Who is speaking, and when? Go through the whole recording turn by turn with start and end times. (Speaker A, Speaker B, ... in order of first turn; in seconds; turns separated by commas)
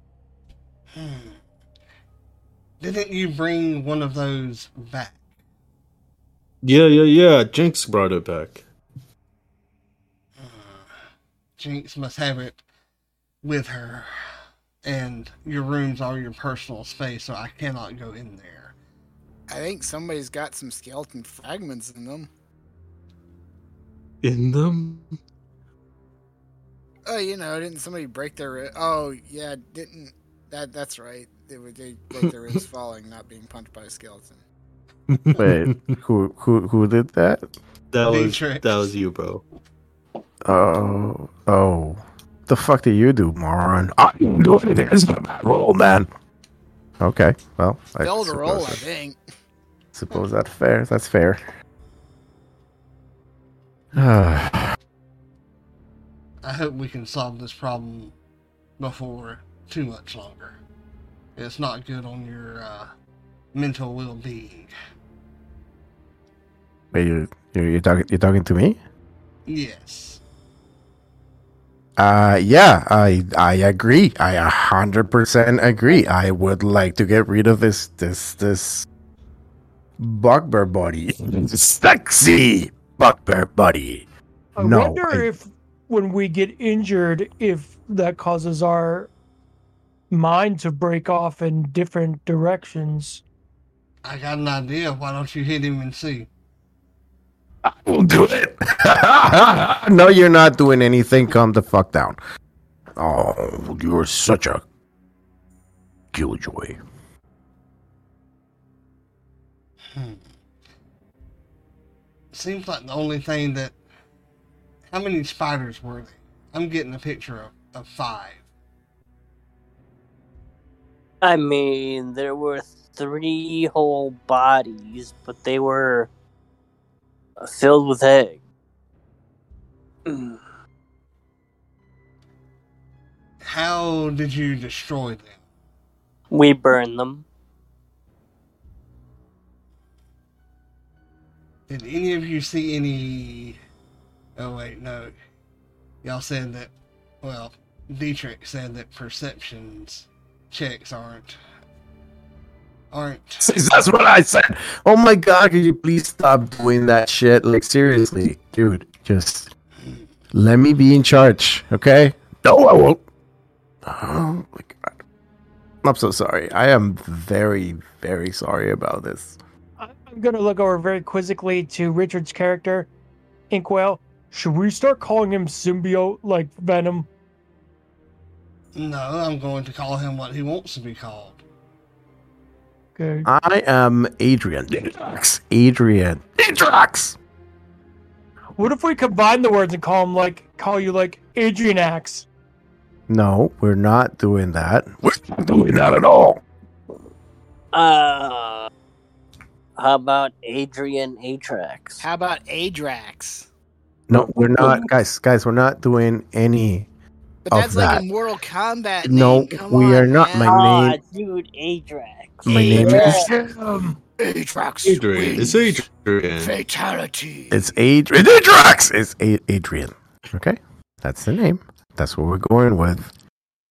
Speaker A: 0.9-1.4, Speaker A: 2.8-5.2, Speaker B: 6.6-8.6, Speaker A: 10.4-10.9, Speaker A: 11.6-12.6, Speaker A: 13.4-14.1, Speaker A: 14.8-18.8, Speaker C: 19.5-22.3, Speaker B: 24.2-25.2, Speaker C: 27.1-34.4, Speaker B: 35.1-35.9, Speaker D: 35.4-37.4, Speaker B: 37.9-39.4, Speaker A: 38.0-38.9, Speaker D: 40.5-46.1, Speaker D: 47.0-48.9, Speaker C: 48.0-49.2, Speaker D: 49.9-51.4, Speaker D: 53.9-54.8, Speaker A: 56.4-58.1, Speaker A: 58.8-60.6, Speaker A: 61.4-62.9, Speaker A: 63.5-64.7, Speaker D: 66.9-68.8, Speaker A: 69.5-70.2, Speaker D: 72.0-78.9, Speaker D: 80.0-84.1, Speaker E: 84.6-89.1, Speaker D: 84.6-85.3, Speaker E: 90.1-93.2, Speaker A: 94.0-96.3, Speaker D: 97.7-102.2, Speaker D: 103.0-104.6, Speaker D: 106.1-106.8, Speaker A: 109.9-110.2, Speaker A: 112.3-113.8, Speaker A: 114.9-118.5, Speaker F: 121.2-126.1, Speaker F: 127.4-128.4, Speaker F: 130.1-130.4, Speaker A: 133.4-135.4, Speaker F: 136.3-137.2, Speaker A: 141.7-143.6, Speaker A: 144.4-145.1, Speaker A: 146.0-151.4, Speaker A: 152.9-153.5, Speaker D: 153.4-159.5, Speaker A: 159.8-160.1, Speaker D: 160.3-163.0, Speaker D: 163.8-164.9, Speaker D: 165.8-169.4, Speaker E: 169.8-172.9, Speaker E: 173.5-177.1, Speaker A: 178.8-181.4, Speaker E: 183.0-183.3, Speaker D: 183.2-187.2, Speaker E: 188.6-192.3, Speaker D: 193.1-196.4, Speaker F: 197.7-198.7, Speaker F: 199.8-202.0, Speaker C: 202.0-203.5, Speaker D: 204.1-206.9, Speaker C: 207.4-210.6, Speaker D: 207.5-208.1, Speaker D: 209.0-211.0, Speaker F: 210.4-212.5, Speaker D: 212.5-213.3, Speaker C: 212.5-213.3, Speaker E: 212.7-214.0, Speaker C: 214.2-215.8, Speaker B: 214.8-216.5, Speaker C: 216.4-217.7, Speaker D: 217.5-223.1